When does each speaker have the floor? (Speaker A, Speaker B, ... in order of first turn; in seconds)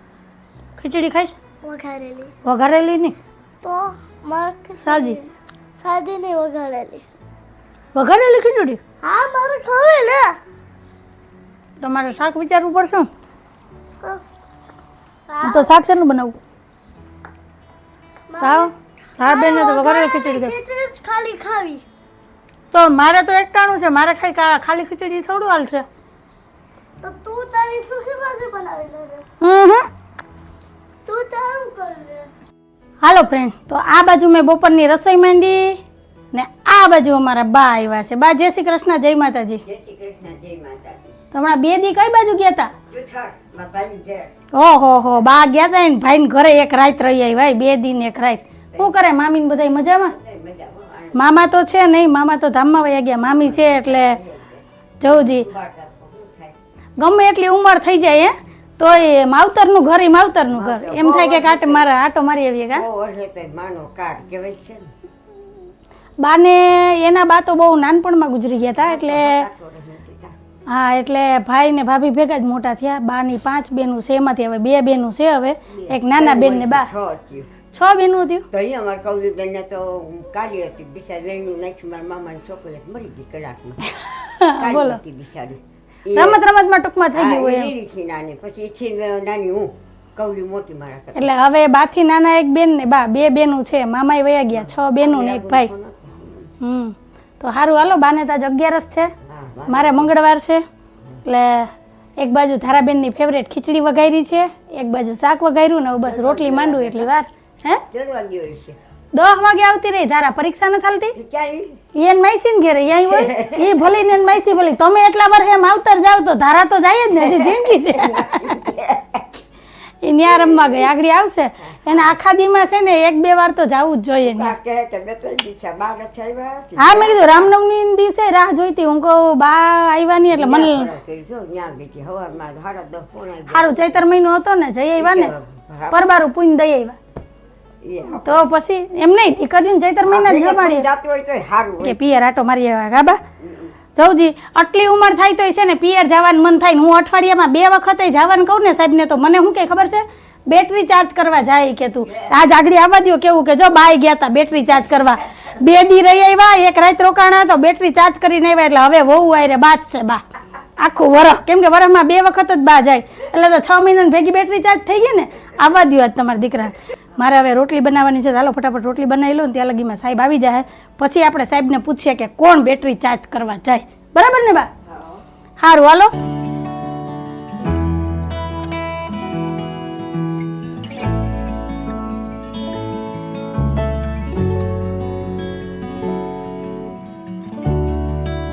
Speaker A: 0.8-1.3, 2.4-3.1, 4.8-5.2, 7.9-8.8, 11.8-13.1, 15.4-16.4, 18.4-20.5, 22.7-25.8, 29.4-29.9, 33.0-35.8, 36.3-39.6, 41.3-42.7, 44.5-50.1, 51.1-54.2, 55.0-55.5, 57.0-62.8, 66.2-69.4, 70.7-76.9, 77.7-78.4, 84.0-85.0, 86.1-87.7, 91.1-95.7, 96.6-99.1, 99.7-100.6, 101.2-107.8, 109.1-111.1, 111.9-118.5, 120.0-124.5, 126.8-130.9, 133.5-135.3, 135.9-136.9, 138.2-140.9, 141.8-143.2, 143.9-160.2, 160.8-174.7, 175.6-176.1
Speaker B: 1.6-2.3, 3.6-7.0, 9.0-10.4, 14.0-14.3, 15.3-15.7, 18.3-18.7, 19.2-21.8, 27.0-29.2, 31.1-32.3
Speaker C: 39.6-41.1, 42.9-44.3, 48.7-49.0, 50.0-51.3, 53.2-56.5, 60.5-61.9, 62.7-64.9, 68.6-70.3, 75.7-77.5, 78.5-83.8, 84.6-86.4, 87.1-91.3, 95.0-96.5, 99.2-100.1, 106.0-107.1, 107.9-108.8, 111.1-111.8, 112.9-113.8, 117.1-119.4, 121.8-122.1, 124.3-127.5, 130.3-134.0, 135.0-136.1, 137.8-138.5, 140.0-142.0, 143.4-143.7, 152.1-152.4, 174.9-175.2